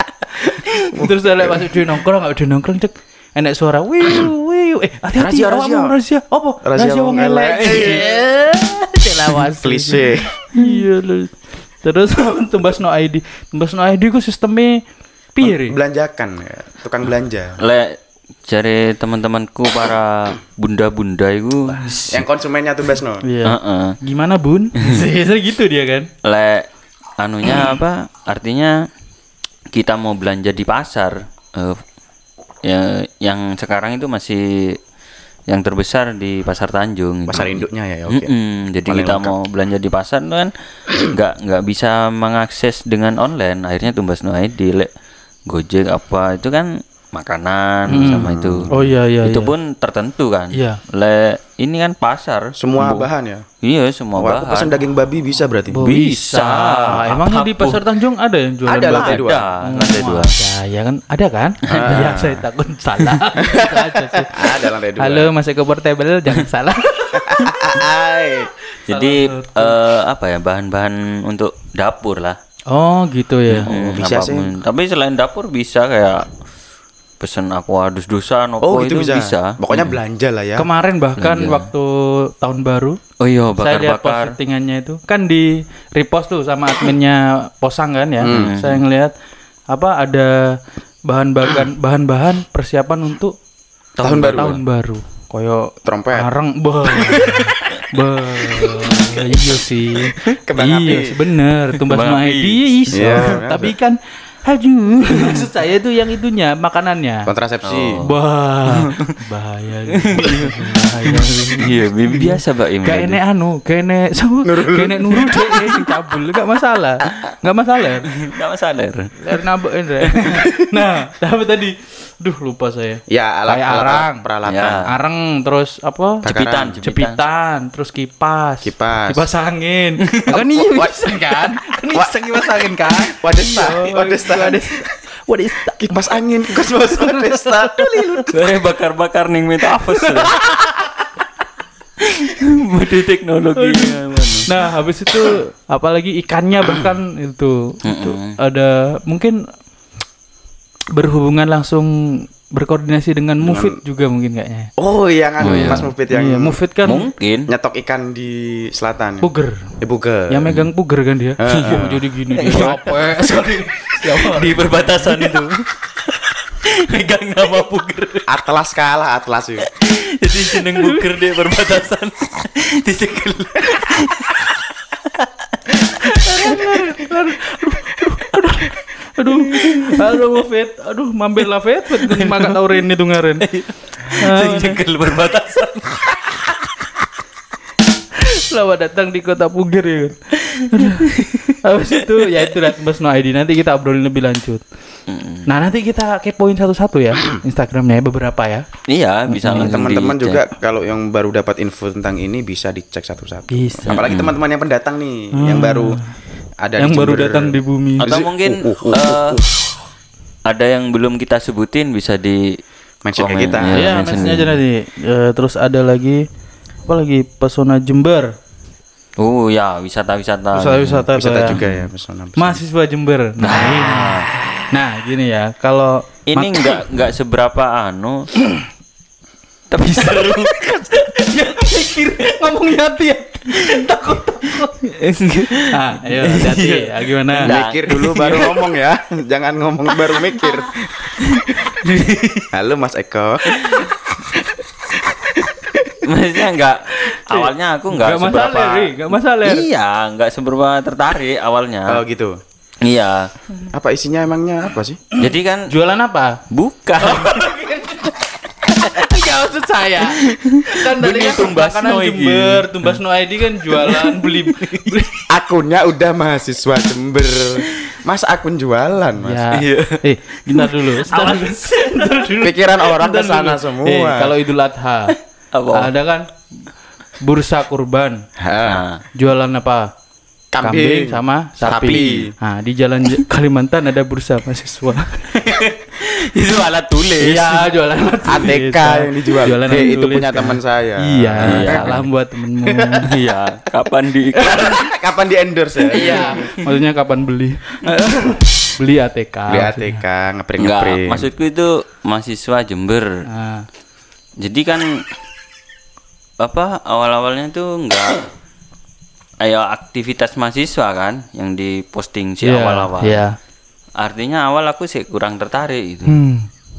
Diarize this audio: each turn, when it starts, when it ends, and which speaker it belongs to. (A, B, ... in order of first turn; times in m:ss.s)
0:00.3-0:14.8 A
0:00.9-0:01.7 B
0:05.2-0:05.9 B
0:06.6-0:08.2 B
0:09.6-0:10.3 B
0:15.4-0:15.8 A
0:15.4-0:17.6 B
0:17.6-0:22.2 C
0:21.8-0:23.2 B
0:23.2-0:26.1 A
0:23.4-0:24.0 C
0:26.2-0:26.7 C
0:27.2-0:28.8 C
0:29.7-0:31.8 C
0:32.6-0:34.8 C
0:35.5-0:44.9 C
0:37.3-0:38.3 B
0:38.9-0:39.4 B
0:45.5-0:53.1 C
0:47.9-0:49.5 A
0:47.9-0:48.7 B
0:50.5-0:50.8 A
0:52.6-0:53.4 B
0:53.6-0:54.8 C
0:54.2-0:55.8 B
0:55.7-1:07.7 A
0:55.8-0:57.8 C
0:58.7-0:59.4 B
0:58.9-1:00.3 C
1:01.7-1:02.1 C
1:01.7-1:02.4 B
1:03.4-1:05.3 B
1:07.1-1:08.5 B
1:08.9-1:09.8 A
1:08.9-1:12.4 C
1:12.7-1:13.7 A
1:13.5-1:16.3 C
1:13.7-1:14.5 B
1:17.2-1:20.0 C
1:18.6-1:20.7 B
1:20.6-1:23.0 A
1:21.2-1:21.7 C
1:23.2-1:24.3 C
1:23.6-1:29.1 A
1:28.2-1:28.6 B
1:28.3-1:28.8 C
1:29.7-1:33.4 A
1:34.0-1:34.6 C
1:34.0-1:34.6 B
1:34.2-1:47.3 A
1:35.8-1:36.3 B
1:37.0-1:37.8 C
1:38.4-1:39.4 C
1:40.4-1:41.2 B
1:41.8-1:42.6 C
1:42.9-1:43.8 B
1:47.3-1:48.0 B
1:47.6-1:48.1 C
1:48.0-1:58.1 A
1:48.7-1:49.2 C
1:50.0-1:53.2 C
1:54.4-1:55.3 B
1:57.1-1:57.3 C
1:58.1-1:59.1 C
1:59.2-2:04.2 A
2:00.0-2:00.6 C
2:03.1-2:04.9 B
2:04.5-2:04.9 C
2:04.9-2:06.2 A
2:06.2-2:07.2 C
2:06.2-2:06.8 B
2:06.8-2:18.2 A
2:08.6-2:09.3 B
2:10.3-2:14.9 B
2:15.8-2:18.6 B
2:18.3-2:20.4 C
2:20.0-2:20.5 A
2:22.0-2:24.5 C
2:23.6-2:29.4 A
2:27.8-2:28.4 C
2:31.0-2:34.7 A
2:33.4-2:33.8 B
2:34.8-2:36.6 B
2:35.4-2:35.9 C
2:35.4-2:37.0 A
2:36.8-2:37.5 C
2:37.5-2:39.3 B
2:39.2-2:39.7 A
2:39.8-2:40.5 B
2:40.3-2:45.4 A
2:41.4-2:42.0 B
2:41.6-2:48.4 C
2:48.3-2:49.7 B
2:49.7-2:57.0 C
2:50.5-2:51.1 A
2:56.0-3:03.5 A
2:59.5-3:00.1 C
3:02.0-3:02.7 C
3:03.4-3:06.6 C
3:04.1-3:04.8 A
3:08.2-3:14.6 A
3:10.4-3:11.5 C
3:15.1-3:15.5 C
3:15.5-3:18.7 A
3:18.9-3:20.4 C
3:19.3-3:19.7 A
3:19.5-3:26.0 B
3:23.5-3:24.0 A
3:23.9-3:24.4 C
3:25.4-3:26.1 A
3:26.6-3:29.7 B
3:26.8-3:28.1 A
3:28.0-3:29.4 C
3:30.5-3:32.6 C
3:33.0-3:33.9 B
3:33.2-3:34.6 C
3:33.7-3:36.2 A
3:36.8-3:38.3 A
3:39.2-3:41.8 C
3:40.5-3:41.6 A
3:41.2-3:42.6 B
3:42.4-3:44.2 A
3:43.4-3:44.3 C
3:44.7-3:46.8 A
3:46.3-3:48.3 C
3:49.7-3:54.8 A
3:49.8-3:50.9 C
3:53.6-3:53.8 C
3:54.8-3:58.7 C
3:55.5-3:57.6 A
3:57.5-4:00.9 B
4:01.1-4:02.5 C
4:02.5-4:03.9 B
4:03.5-4:03.9 C
4:05.1-4:06.0 B
4:06.0-4:12.0 C
4:06.9-4:09.7 A
4:11.9-4:12.4 B
4:12.8-4:13.3 C
4:13.7-4:15.0 B
4:15.2-4:15.7 C
4:15.7-4:16.4 A
4:16.5-4:17.6 C
4:17.0-4:25.2 A
4:18.8-4:19.2 C
4:20.2-4:23.0 C
4:23.7-4:24.4 C
4:25.3-4:29.5 B
4:29.2-4:35.2 A
4:29.5-4:32.4 C
4:32.4-4:34.4 B
4:35.5-4:35.9 C
4:35.7-4:36.3 A
4:37.2-4:38.2 A
4:38.4-4:38.8 B
4:38.6-4:39.0 C
4:39.2-4:39.9 A
4:40.5-4:42.3 B
4:40.6-4:45.4 A
4:41.7-4:42.2 C
4:45.3-4:47.7 C
4:47.2-4:53.1 A
4:48.3-4:52.0 B
4:51.4-4:52.1 C
4:52.7-4:53.0 B
4:53.0-4:54.9 C
4:54.4-4:56.5 B
4:55.9-5:00.0 A
4:56.0-4:56.6 C
4:59.5-5:01.3 B
5:00.6-5:03.1 C
5:03.3-5:03.6 A
5:04.4-5:04.9 C
5:06.4-5:08.3 C
5:09.4-5:13.2 C
5:12.4-5:13.4 A
5:14.0-5:16.2 C
5:16.1-5:16.5 A